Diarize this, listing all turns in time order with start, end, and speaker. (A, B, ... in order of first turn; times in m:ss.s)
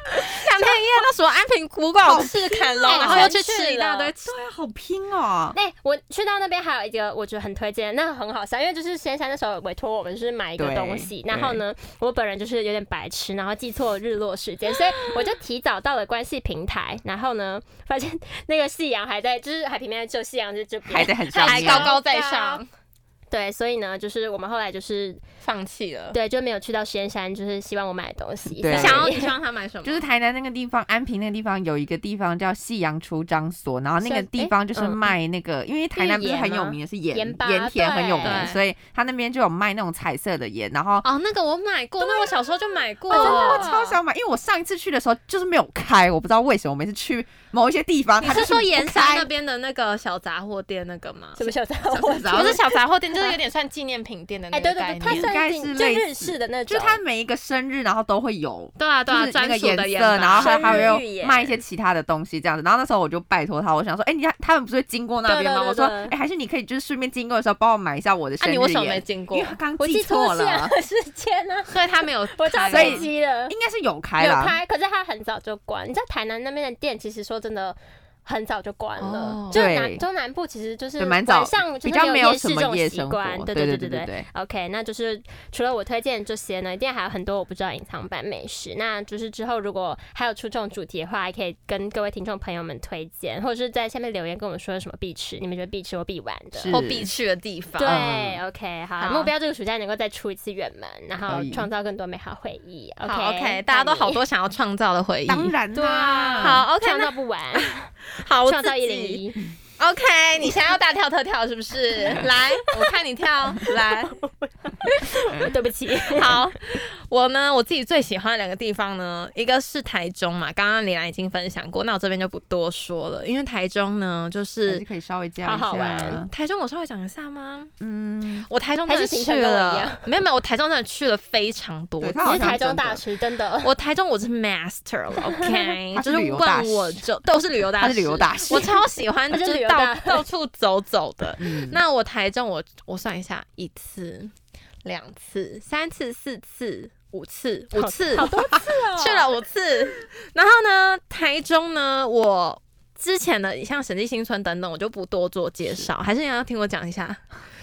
0:00.2-0:04.3 A
0:02.0-0:03.3 B
0:02.4-0:04.1 C
0:04.2-0:05.6 B
0:05.5-0:22.6 C
0:10.6-0:11.6 B
0:20.9-0:21.9 B
0:21.4-0:22.7 A
0:23.3-0:25.2 C
0:25.4-0:26.2 A
0:26.1-0:29.3 C
0:28.6-0:29.1 B
0:28.7-0:30.0 A
0:29.8-0:41.1 B
0:34.0-0:35.1 C
0:35.9-0:38.5 C
0:38.2-0:38.6 A
0:41.0-0:43.8 A
0:42.0-0:42.3 C
0:43.1-0:49.3 B
0:43.1-0:44.0 C
0:48.2-0:51.5 A
0:51.4-0:53.4 C
0:51.9-0:52.6 B
0:52.3-0:55.3 A
0:54.5-0:57.0 C
0:55.0-1:10.7 B
0:58.8-1:00.9 A
1:00.4-1:01.6 C
1:05.3-1:05.9 A
1:05.3-1:06.1 C
1:08.4-1:09.6 A
1:09.8-1:13.5 C
1:11.7-1:13.1 A
1:12.7-1:14.6 B
1:14.2-1:36.8 C
1:19.0-1:19.7 A
1:19.5-1:20.0 B
1:21.0-1:24.2 B
1:36.5-1:37.1 B
1:36.7-1:38.0 A
1:37.8-1:44.2 C
1:37.9-1:38.4 B
1:39.0-1:39.3 A
1:41.3-1:41.7 B
1:43.0-1:45.5 A
1:45.3-1:46.6 B
1:45.7-1:47.9 C
1:46.3-1:49.2 A
1:48.5-1:49.5 C
1:49.8-1:54.1 A
1:53.6-1:56.5 C
1:56.0-2:04.8 A
2:04.7-2:06.3 B
2:05.4-2:06.2 C
2:06.3-2:07.7 A
2:07.8-2:08.5 B
2:08.5-2:12.6 A
2:08.8-2:10.0 C
2:12.0-2:13.0 B
2:12.2-2:13.7 C
2:13.6-2:24.3 A
2:15.9-2:17.0 B
2:17.8-2:18.8 B
2:19.3-2:20.3 C
2:21.4-2:21.8 B
2:24.8-2:28.3 A
2:27.7-2:29.3 C
2:28.9-2:37.2 A